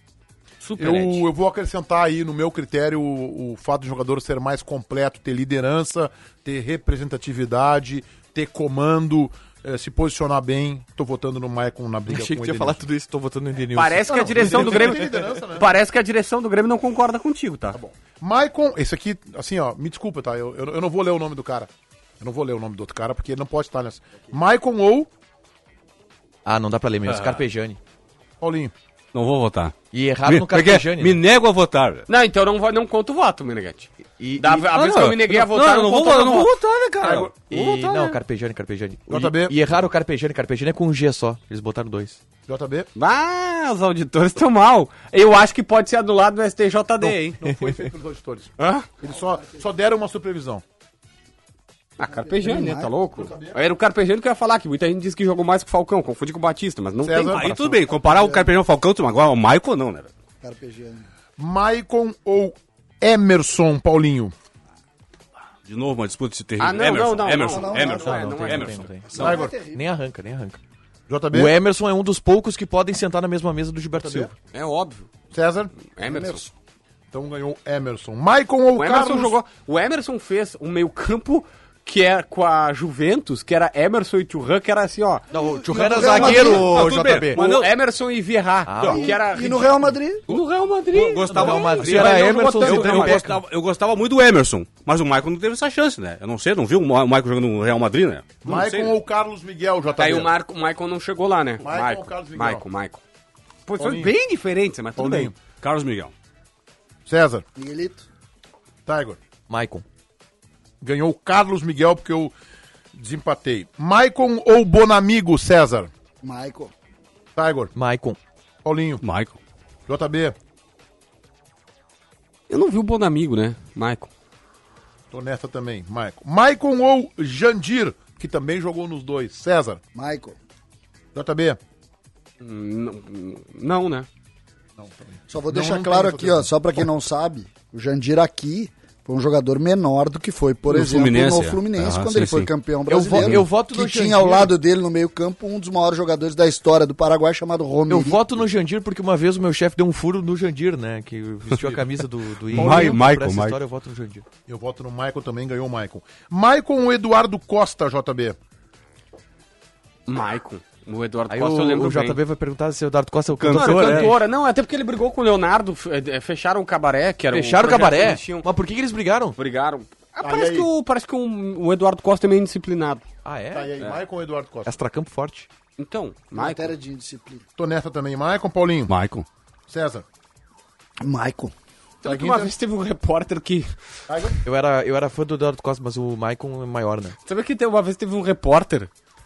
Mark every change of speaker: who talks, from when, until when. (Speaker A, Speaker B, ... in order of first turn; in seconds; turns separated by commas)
Speaker A: 0.6-1.2, Speaker B: 0.8-12.8, Speaker C: 12.1-15.4, Speaker A: 13.7-17.8, Speaker B: 14.1-15.7, Speaker B: 17.7-25.1, Speaker C: 26.4-27.8, Speaker D: 27.1-27.4, Speaker B: 28.4-28.7, Speaker D: 29.1-32.0, Speaker C: 29.9-31.2, Speaker A: 32.1-36.6, Speaker C: 34.2-34.7, Speaker D: 34.7-38.2, Speaker B: 37.0-37.3, Speaker C: 37.4-42.2, Speaker B: 39.1-39.6, Speaker B: 42.5-42.9, Speaker A: 42.9-47.4, Speaker B: 47.0-50.6, Speaker A: 48.6-48.9, Speaker A: 52.0-57.8, Speaker E: 52.0-53.3, Speaker B: 53.2-53.5, Speaker B: 57.0-57.5, Speaker D: 57.3-60.1, Speaker E: 57.9-58.5, Speaker E: 60.4-61.1, Speaker B: 61.4-64.3, Speaker D: 65.7-68.9, Speaker A: 66.6-68.9, Speaker E: 67.3-68.2, Speaker C: 67.9-70.6, Speaker E: 69.1-69.8, Speaker B: 69.2-69.5, Speaker B: 71.1-71.5, Speaker C: 71.3-74.3, Speaker B: 73.9-74.3, Speaker A: 74.5-75.1, Speaker B: 75.3-75.7, Speaker A: 75.9-76.4, Speaker E: 76.0-76.5, Speaker B: 77.1-79.3, Speaker A: 78.7-85.2, Speaker C: 85.3-87.4, Speaker E: 85.7-86.7, Speaker D: 86.1-87.7, Speaker A: 87.0-93.2, Speaker C: 88.7-89.1, Speaker E: 88.8-90.2, Speaker D: 90.9-99.0, Speaker C: 91.3-93.4, Speaker B: 91.9-93.2, Speaker B: 98.4-100.3, Speaker A: 100.0-103.0, Speaker B: 101.6-102.6, Speaker A: 103.7-105.3, Speaker B: 103.8-104.1, Speaker B: 105.0-105.3, Speaker D: 105.6-106.1, Speaker B: 107.0-107.4, Speaker E: 107.5-108.0, Speaker B: 108.8-109.2, Speaker C: 109.5-109.8, Speaker B: 110.8-112.3, Speaker B: 112.9-115.9, Speaker E: 116.2-116.7, Speaker B: 117.3-117.7, Speaker C: 117.7-118.2, Speaker B: 118.6-119.0, Speaker D: 119.0-119.4, Speaker B: 119.9-120.3, Speaker A: 122.5-124.1, Speaker B: 125.1-129.8, Speaker E: 129.9-130.4, Speaker B: 131.1-131.6, Speaker A: 132.4-134.1, Speaker B: 134.8-136.8, Speaker E: 135.3-148.2, Speaker D: 140.7-142.5, Speaker C: 142.9-144.5, Speaker D: 143.1-143.4, Speaker C: 147.9-154.2, Speaker B: 151.5-151.8, Speaker D: 152.5-153.6, Speaker B: 152.5-153.0, Speaker B: 154.5-158.4, Speaker A: 160.1-162.2, Speaker C: 161.3-164.2, Speaker D: 163.4-164.1, Speaker A: 163.4-168.5, Speaker C: 167.3-169.3, Speaker A: 169.3-173.0, Speaker B: 170.2-170.7, Speaker C: 173.2-173.9, Speaker B: 173.5-174.8, Speaker C: 174.7-175.5, Speaker A: 175.8-176.7, Speaker E: 176.3-177.4, Speaker B: 177.6-178.9, Speaker D: 178.9-179.2, Speaker B: 179.7-180.0, Speaker E: 181.0-181.5, Speaker A: 182.0-183.7, Speaker B: 182.0-182.5, Speaker B: 184.1-184.4, Speaker C: 184.4-187.2, Speaker A: 187.2-188.9